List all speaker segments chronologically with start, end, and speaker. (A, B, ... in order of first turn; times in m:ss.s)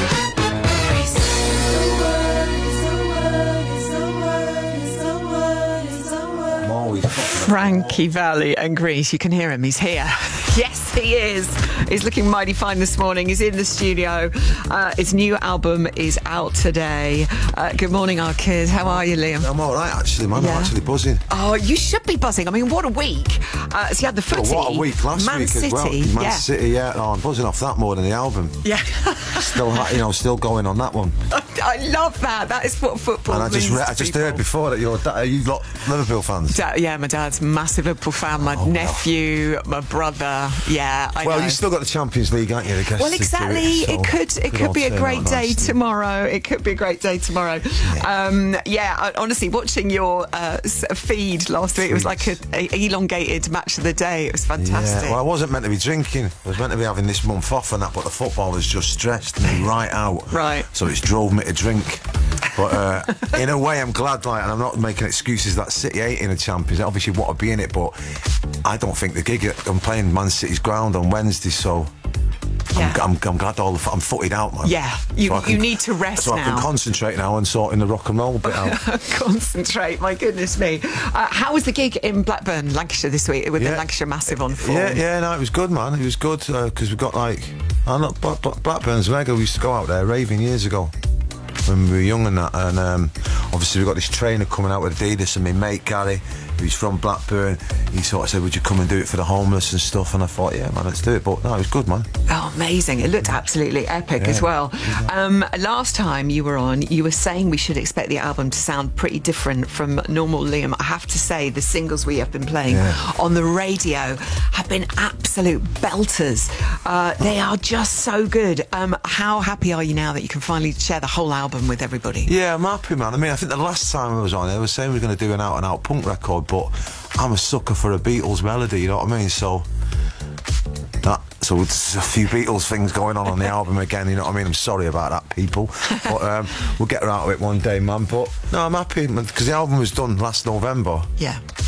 0:00.9-0:06.6 A
0:06.6-0:08.0 B
0:07.1-0:19.5 A
0:19.4-0:21.2 B
0:20.3-0:20.8 A
0:21.3-0:26.5 A
0:24.3-0:28.6 B
0:28.6-0:30.0 A
0:29.3-0:31.2 B
0:31.3-0:34.4 A
0:33.3-0:36.6 B
0:36.5-0:41.6 A
0:38.4-0:39.1 B
0:41.2-0:45.8 B
0:42.8-0:55.2 A
0:51.8-0:52.4 B
0:54.6-1:08.0 B
1:00.3-1:00.7 A
1:08.6-1:11.9 B
1:12.7-1:13.0 A
1:12.7-1:18.8 B
1:14.6-1:16.7 A
1:18.4-1:25.0 A
1:23.6-1:30.9 B
1:31.7-1:42.1 B
1:42.3-2:02.3 A
1:44.2-1:45.1 B
1:52.7-1:53.0 B
2:02.3-2:09.6 B
2:11.0-2:21.1 B